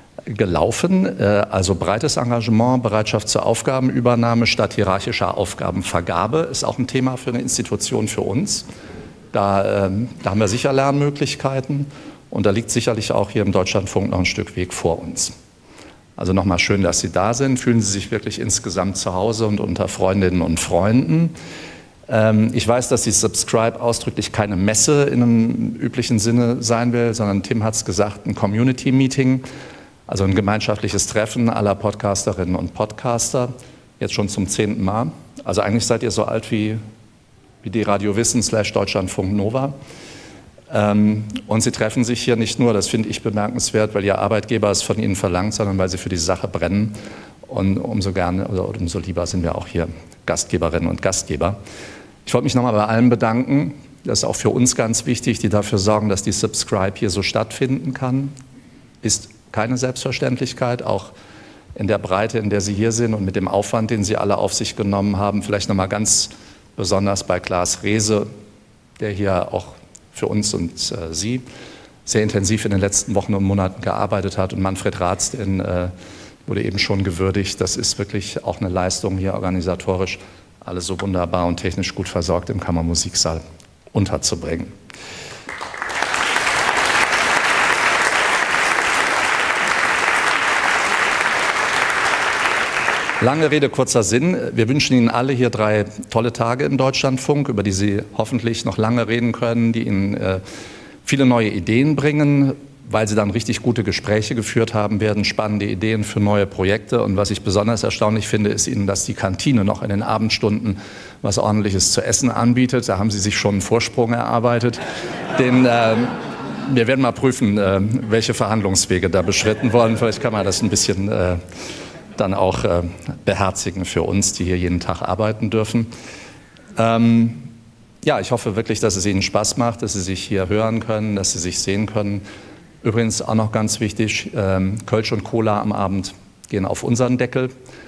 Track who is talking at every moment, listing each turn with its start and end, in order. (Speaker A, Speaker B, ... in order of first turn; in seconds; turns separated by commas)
Speaker A: 0.3-8.7, Speaker A: 9.3-15.3, Speaker A: 16.2-21.4, Speaker A: 22.1-29.4, Speaker A: 30.1-36.8, Speaker A: 37.6-39.8, Speaker A: 40.7-51.6, Speaker A: 52.3-58.3, Speaker A: 59.0-61.1, Speaker A: 61.8-68.3, Speaker A: 69.0-71.4, Speaker A: 72.1-75.9, Speaker A: 76.5-83.4, Speaker A: 83.9-84.8, Speaker A: 93.2-100.4, Speaker A: 101.0-114.8, Speaker A: 115.3-121.4, Speaker A: 122.2-125.9, Speaker A: 126.8-127.5, Speaker A: 128.0-132.2, Speaker A: 132.8-137.5